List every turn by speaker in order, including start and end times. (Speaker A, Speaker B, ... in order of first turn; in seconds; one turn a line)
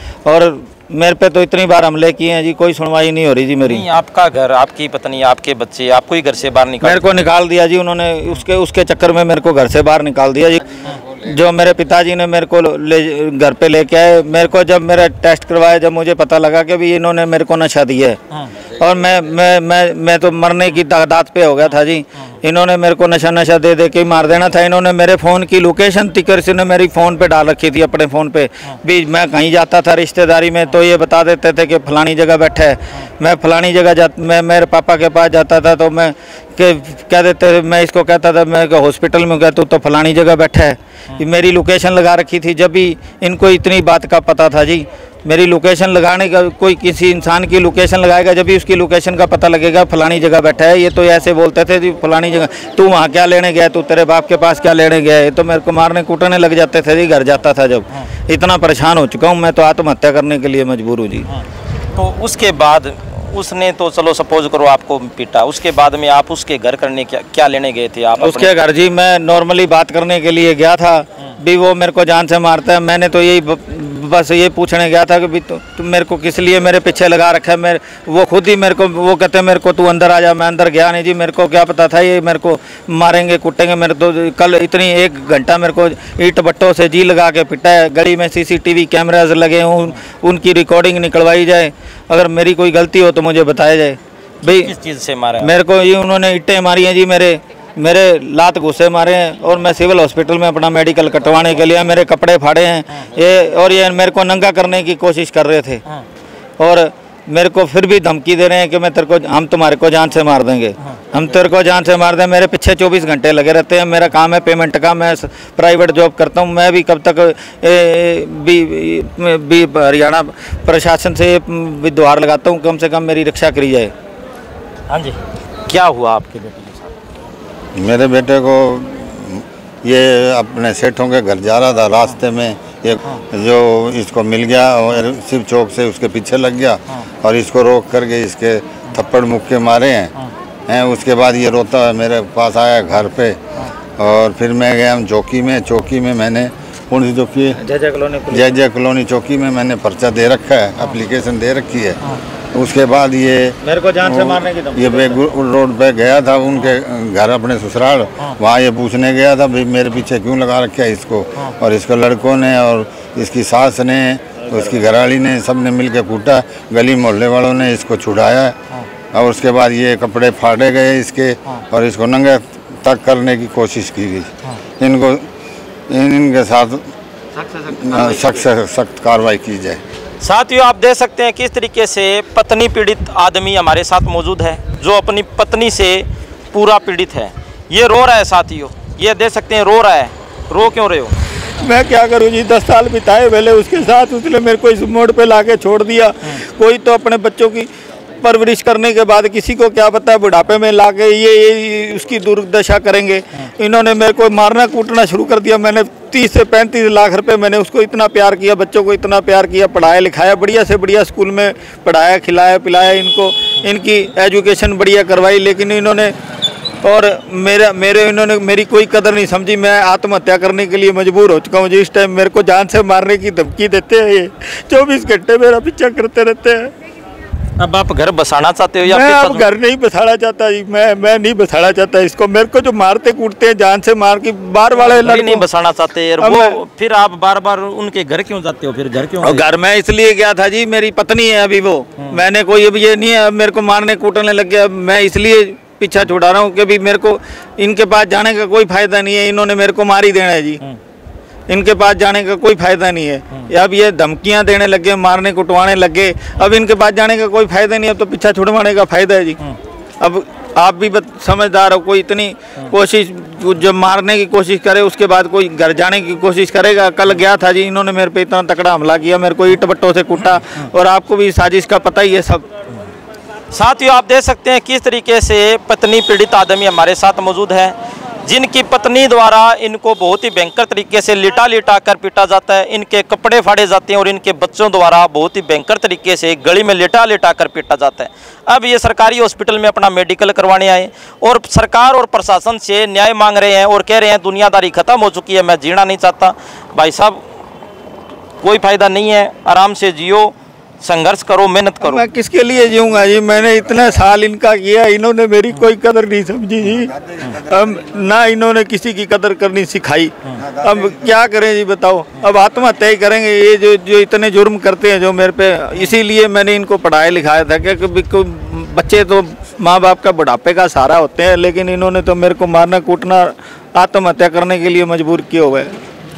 Speaker A: 0.3-3.9
Speaker B: 3.6-7.0
Speaker A: 6.8-61.3
Speaker B: 62.0-68.5
Speaker A: 68.2-94.7
Speaker B: 94.4-95.5
Speaker A: 95.4-105.8
Speaker A: 106.6-123.9
Speaker B: 124.9-126.9
Speaker C: 127.8-140.1
Speaker C: 140.7-143.4
Speaker C: 144.0-147.6
Speaker A: 147.6-148.6
Speaker C: 148.3-152.0
Speaker C: 152.5-168.6
Speaker A: 153.6-155.2
Speaker C: 169.1-175.2
Speaker C: 175.9-176.8
Speaker B: 177.4-178.4
Speaker C: 177.7-179.8
Speaker B: 180.2-191.2
Speaker A: 191.4-197.7
Speaker A: 198.2-216.2
Speaker A: 216.8-226.7
Speaker B: 227.6-229.5
Speaker A: 228.8-235.4
Speaker B: 234.7-239.4
Speaker A: 236.2-236.6
Speaker A: 239.2-250.6
Speaker A: 251.5-259.4
Speaker A: 260.0-272.5
Speaker B: 273.5-297.2
Speaker B: 298.4-302.0
Speaker A: 301.8-325.7